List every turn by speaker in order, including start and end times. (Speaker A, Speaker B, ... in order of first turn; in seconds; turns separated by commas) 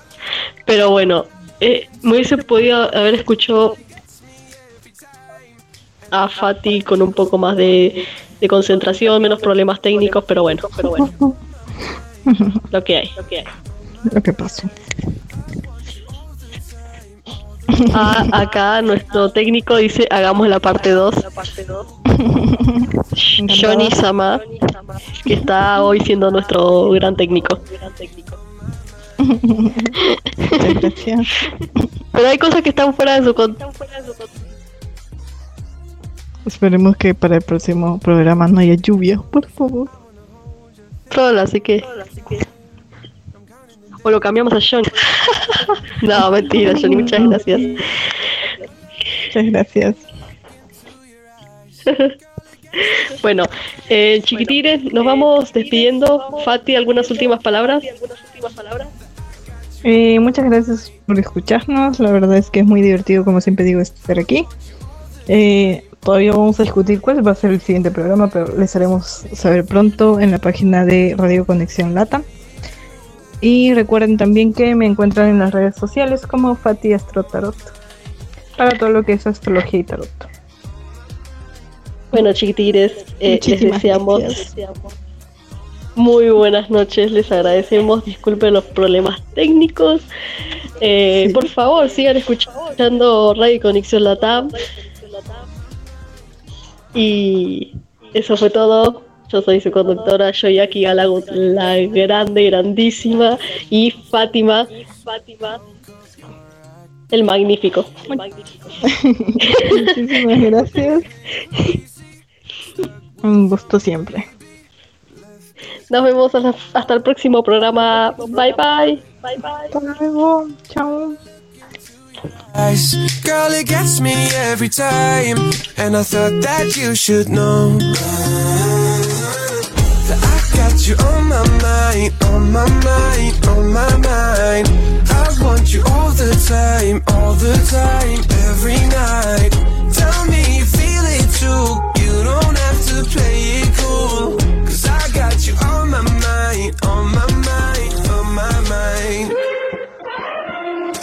Speaker A: 0.7-3.8, Speaker A: 6.1-11.1, Speaker B: 11.0-11.3, Speaker B: 12.3-12.6, Speaker A: 12.7-13.4, Speaker B: 14.0-14.7, Speaker B: 17.7-18.4, Speaker A: 17.9-21.5, Speaker B: 22.1-24.0, Speaker A: 23.1-24.5, Speaker A: 25.1-27.7, Speaker B: 29.2-30.0, Speaker A: 30.0-30.8, Speaker B: 30.5-31.9, Speaker A: 32.1-33.8, Speaker B: 36.5-39.9, Speaker A: 41.1-41.9, Speaker A: 44.0-47.8, Speaker B: 46.6-47.4, Speaker B: 49.3-50.0, Speaker A: 51.9-52.1, Speaker A: 52.8-58.0, Speaker B: 59.8-64.5, Speaker B: 65.3-72.2, Speaker B: 73.4-77.8, Speaker B: 78.6-80.3, Speaker A: 82.1-84.5, Speaker B: 83.3-84.5, Speaker A: 86.0-90.0, Speaker A: 90.8-94.6, Speaker B: 91.2-91.5, Speaker A: 97.0-104.7, Speaker A: 107.1-108.2, Speaker B: 108.8-111.1, Speaker A: 109.4-109.9, Speaker B: 113.2-114.3, Speaker A: 115.9-119.7, Speaker B: 119.7-121.2, Speaker C: 122.5-149.4